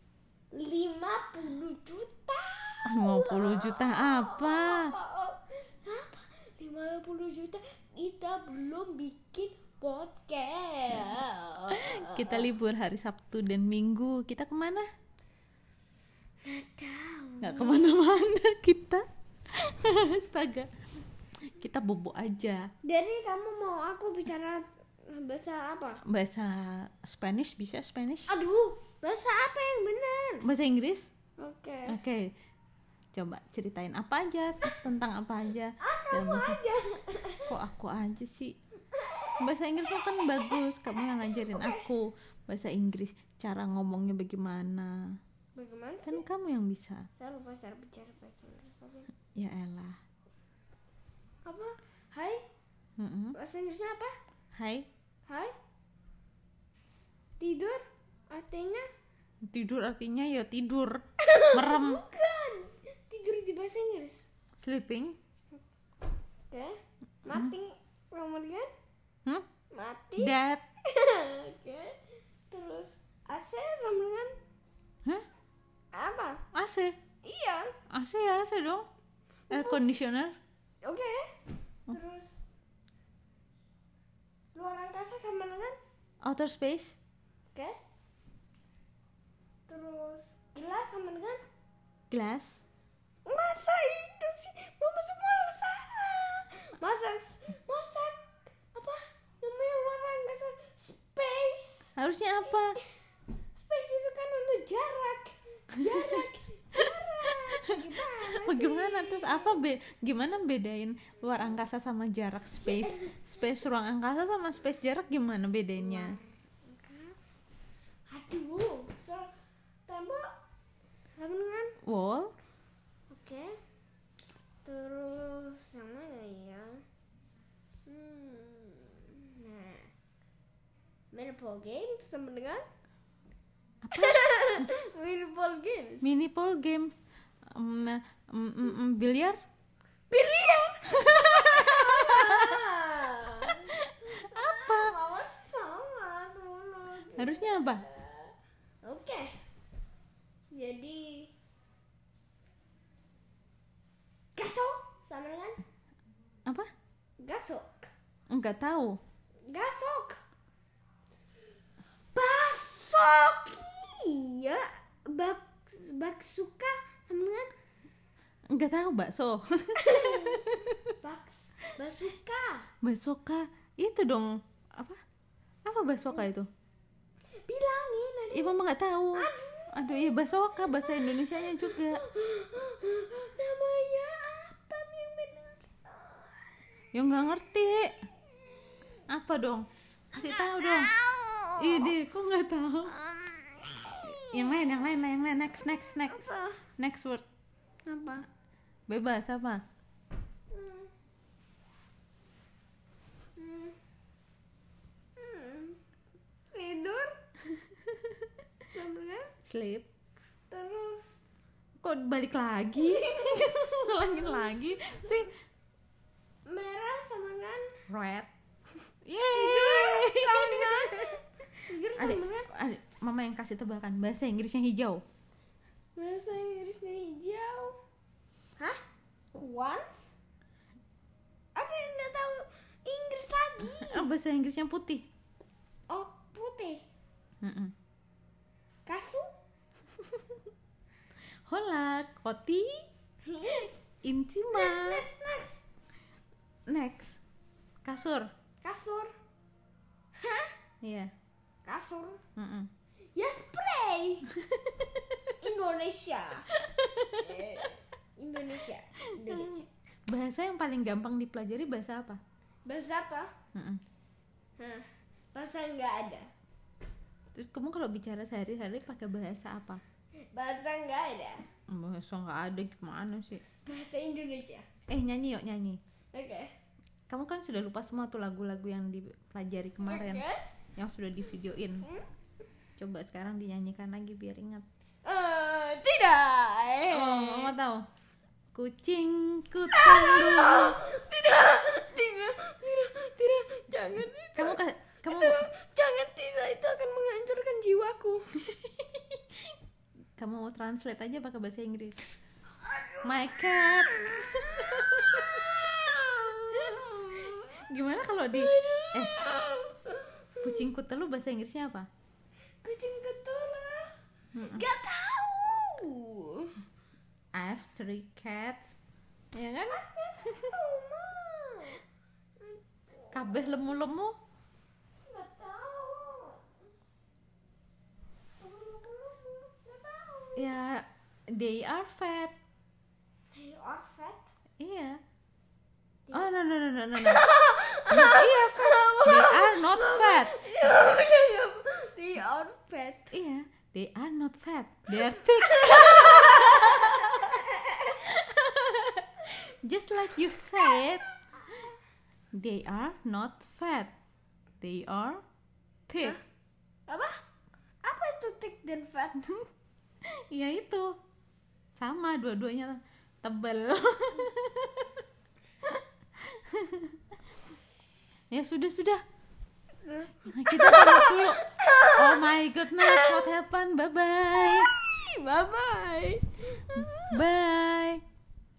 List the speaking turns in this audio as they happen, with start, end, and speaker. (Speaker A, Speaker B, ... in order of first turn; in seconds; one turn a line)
Speaker A: 0.5-12.5
Speaker B: 2.9-4.9
Speaker B: 11.7-14.9
Speaker A: 16.4-18.0
Speaker B: 17.4-20.7
Speaker B: 21.6-22.7
Speaker A: 22.9-26.0
Speaker B: 26.1-28.3
Speaker A: 28.3-30.4
Speaker B: 30.4-31.1
Speaker A: 31.4-32.0
Speaker B: 31.9-32.3
Speaker B: 33.1-36.6
Speaker A: 35.8-37.5
Speaker B: 37.5-38.5
Speaker A: 39.0-39.3
Speaker B: 39.4-45.0
Speaker A: 41.3-41.9
Speaker A: 45.6-46.2
Speaker B: 46.0-47.1
Speaker A: 47.2-49.1
Speaker B: 49.4-50.0
Speaker A: 51.5-52.4
Speaker B: 53.0-53.4
Speaker A: 53.3-54.2
Speaker B: 54.5-54.9
Speaker A: 55.3-55.5
Speaker A: 57.4-58.9
Speaker B: 59.5-62.0
Speaker A: 61.2-64.3
Speaker B: 64.6-65.2
Speaker A: 66.5-68.7
Speaker B: 67.3-67.5
Speaker A: 69.7-72.0
Speaker B: 70.2-70.7
Speaker A: 72.5-74.3
Speaker A: 75.9-76.4
Speaker B: 76.5-77.0
Speaker A: 77.2-77.7
Speaker B: 77.9-78.9
Speaker A: 79.5-79.8
Speaker B: 79.5-80.4
Speaker A: 80.8-81.3
Speaker A: 81.9-82.3
Speaker A: 84.5-85.8
Speaker B: 86.2-87.0
Speaker A: 89.7-91.4
Speaker B: 92.1-92.6
Speaker A: 93.3-102.0
Speaker B: 102.0-102.8
Speaker A: 103.5-109.6
Speaker B: 108.3-116.2
Speaker A: 112.8-113.1
Speaker A: 115.8-117.3
Speaker A: 118.1-119.3
Speaker A: 119.9-120.3
Speaker A: 121.2-121.8
Speaker B: 121.8-122.3
Speaker A: 123.1-123.5
Speaker A: 124.6-126.8
Speaker A: 127.9-129.9
Speaker A: 131.1-132.7
Speaker B: 133.8-134.2
Speaker A: 133.9-136.1
Speaker B: 136.0-139.4
Speaker A: 140.1-148.3
Speaker B: 141.1-142.6
Speaker B: 143.8-144.9
Speaker B: 147.2-147.8
Speaker A: 148.8-149.3
Speaker A: 150.5-151.3
Speaker A: 154.4-155.6
Speaker A: 157.2-157.9
Speaker B: 158.3-159.0
Speaker A: 159.5-160.2
Speaker A: 162.1-167.5
Speaker B: 168.5-170.8
Speaker A: 169.8-172.7
Speaker B: 172.8-175.0
Speaker B: 175.7-176.5
Speaker A: 177.4-178.6
Speaker B: 178.3-182.0
Speaker A: 179.1-186.4
Speaker B: 186.9-188.1
Speaker B: 189.1-190.9
Speaker A: 190.2-191.9
Speaker B: 191.6-193.0
Speaker A: 193.3-194.3
Speaker B: 194.1-197.2
Speaker A: 196.1-196.6
Speaker A: 197.8-198.3
Speaker B: 198.9-199.6
Speaker A: 200.5-200.9
Speaker A: 203.4-203.8
Speaker A: 205.2-205.8
Speaker A: 206.5-207.2
Speaker A: 208.7-209.3
Speaker B: 209.4-209.9
Speaker A: 210.5-211.2
Speaker B: 211.8-215.3
Speaker A: 212.8-215.3
Speaker A: 216.5-217.8
Speaker B: 217.9-218.3
Speaker B: 219.1-221.2
Speaker A: 219.3-222.5
Speaker B: 222.0-225.0
Speaker A: 226.0-227.8
Speaker A: 229.3-230.1
Speaker A: 231.6-234.1
Speaker B: 233.8-235.1
Speaker A: 235.9-236.8
Speaker B: 237.4-237.7
Speaker A: 238.9-239.3
Speaker B: 241.5-242.9
Speaker A: 243.3-243.7
Speaker B: 244.0-245.1
Speaker A: 244.5-245.7
Speaker B: 246.7-247.2
Speaker B: 247.8-248.3
Speaker A: 248.6-249.1
Speaker A: 250.2-250.5
Speaker B: 250.8-251.1
Speaker A: 251.7-252.2
Speaker B: 252.4-252.7
Speaker A: 253.2-254.3
Speaker B: 254.4-254.8
Speaker A: 255.4-259.7
Speaker B: 256.8-257.4
Speaker B: 259.2-262.2
Speaker A: 262.7-263.3
Speaker B: 263.5-263.8
Speaker A: 264.6-266.3
Speaker B: 267.4-269.8
Speaker A: 270.3-271.5
Speaker B: 271.7-273.4
Speaker A: 273.6-274.7
Speaker B: 274.9-275.8
Speaker A: 276.1-276.5
Speaker B: 277.1-280.2
Speaker A: 279.9-280.4
Speaker B: 280.8-281.9
Speaker B: 282.8-284.7
Speaker A: 285.1-287.5
Speaker B: 286.9-287.8
Speaker B: 288.5-290.8
Speaker A: 289.7-298.4
Speaker B: 294.4-295.4
Speaker B: 298.5-299.2
Speaker B: 300.2-302.0
Speaker B: 303.0-305.0
Speaker A: 303.6-307.6
Speaker B: 307.7-309.2
Speaker A: 308.3-310.6
Speaker B: 310.4-311.9
Speaker A: 312.6-316.6
Speaker B: 314.4-314.7
Speaker B: 317.3-318.8
Speaker B: 319.3-319.8
Speaker A: 319.7-321.8
Speaker A: 322.4-323.6
Speaker B: 323.1-324.2
Speaker A: 325.0-326.4
Speaker A: 328.4-330.6
Speaker B: 330.4-332.4
Speaker A: 333.3-334.3
Speaker B: 334.6-335.0
Speaker A: 336.1-336.4
Speaker B: 336.1-337.2
Speaker A: 337.0-343.1
Speaker B: 337.9-340.4
Speaker B: 343.1-347.3
Speaker A: 345.4-348.7
Speaker B: 349.2-351.1
Speaker B: 352.3-353.9
Speaker B: 354.6-355.2
Speaker B: 355.9-356.2
Speaker A: 356.9-357.2
Speaker A: 357.8-359.4
Speaker B: 360.0-361.0
Speaker B: 361.8-364.9
Speaker B: 366.2-367.0
Speaker B: 368.3-369.0
Speaker A: 369.9-373.2
Speaker B: 370.3-374.7
Speaker A: 374.5-377.2
Speaker B: 376.7-378.0